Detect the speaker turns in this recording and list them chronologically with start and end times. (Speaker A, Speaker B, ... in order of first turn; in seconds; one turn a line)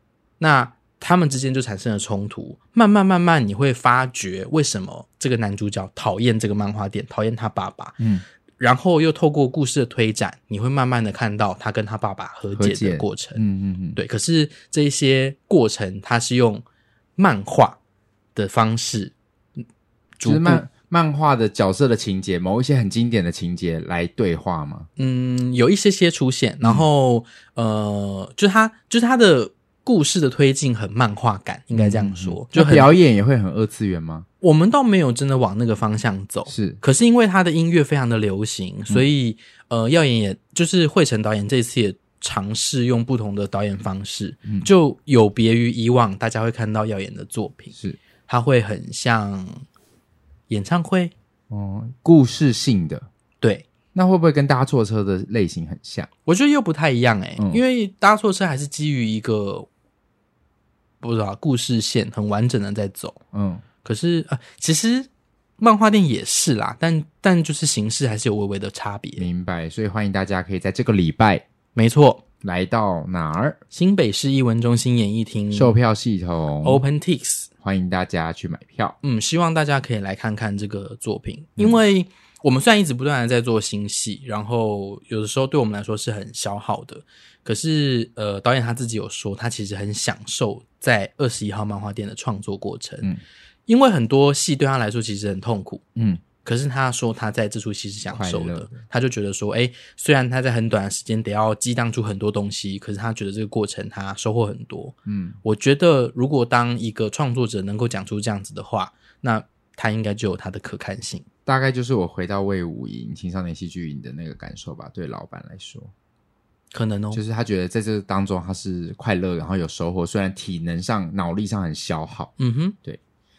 Speaker A: 0.4-8.0
Speaker B: 8.0-8.2
Speaker A: 8.6-13.4
Speaker B: 12.6-14.0
Speaker A: 13.9-16.6
Speaker A: 17.2-17.8
Speaker A: 18.3-19.1
Speaker A: 20.2-20.6
Speaker B: 20.2-24.9
Speaker A: 25.0-32.9
Speaker B: 31.7-34.3
Speaker A: 34.4-47.7
Speaker B: 36.5-36.8
Speaker B: 47.7-48.0
Speaker A: 48.3-49.6
Speaker A: 50.5-51.1
Speaker B: 51.5-53.1
Speaker A: 53.4-53.7
Speaker B: 53.9-56.1
Speaker A: 56.2-59.7
Speaker A: 61.0-63.2
Speaker B: 63.3-63.6
Speaker A: 63.8-65.1
Speaker A: 65.6-69.3
Speaker B: 69.2-71.4
Speaker A: 71.7-72.2
Speaker B: 72.4-73.6
Speaker A: 73.7-75.8
Speaker B: 75.5-76.8
Speaker A: 76.6-77.5
Speaker B: 77.6-79.0
Speaker A: 79.0-93.1
Speaker A: 93.7-95.8
Speaker B: 96.0-96.2
Speaker A: 96.4-111.2
Speaker B: 98.1-98.8
Speaker B: 105.0-105.4
Speaker B: 111.5-115.9
Speaker A: 116.7-117.2
Speaker B: 117.1-122.3
Speaker A: 122.4-122.8